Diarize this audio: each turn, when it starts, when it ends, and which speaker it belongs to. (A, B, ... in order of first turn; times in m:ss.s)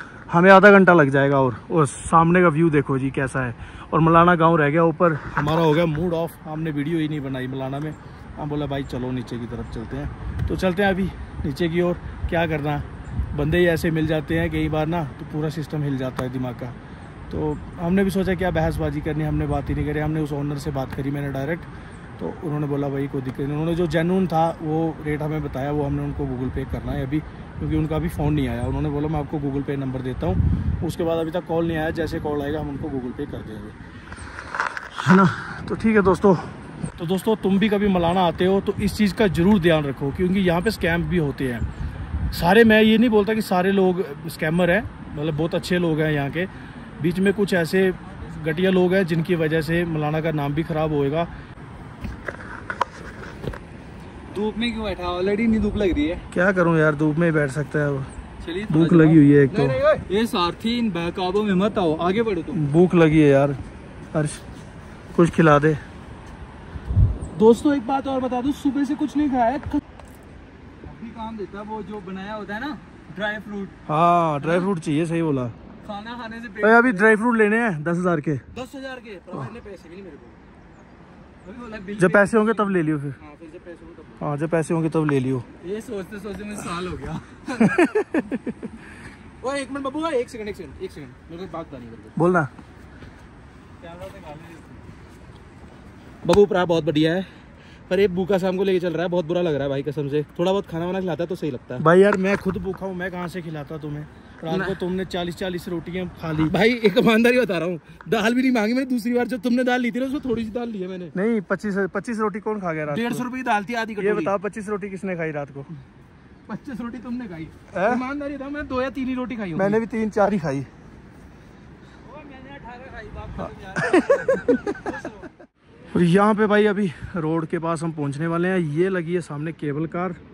0:00.3-0:16.8 A
0:17.3-0:33.8 A
0:34.9-0:41.6 A
0:42.3-0:51.3 A
0:54.3-0:56.2 B
0:56.3-0:58.1 A
0:58.4-0:59.2 B
0:58.7-0:59.8 A
0:59.5-1:00.0 C
1:00.1-1:02.6 B
1:02.5-1:03.6 A
1:04.1-1:04.4 A
1:05.1-1:05.8 A
1:07.3-1:09.8 C
1:10.9-1:13.7 B
1:13.2-1:13.7 C
1:13.8-1:15.5 A
1:15.9-1:16.7 C
1:16.4-1:16.9 B
1:16.6-1:18.4 A
1:18.5-1:20.4 C
1:21.4-1:22.4 C
1:22.0-1:23.2 A
1:23.2-1:24.2 C
1:24.2-1:25.5 A
1:25.6-1:27.9 C
1:27.6-1:28.4 A
1:29.4-1:32.2 C
1:32.2-1:32.5 A
1:33.9-1:34.6 C
1:36.2-1:37.3 C
1:37.9-1:41.8 C
1:41.8-1:46.5 A
1:44.5-1:44.8 C
1:46.5-1:51.1 C
1:51.1-1:53.3 A
1:52.9-1:54.3 C
1:54.0-1:55.7 A
1:56.5-1:59.8 C
1:57.7-1:58.0 A
1:59.6-2:00.7 A
2:02.0-2:05.2 C
2:03.7-2:04.8 A
2:05.9-2:10.2 A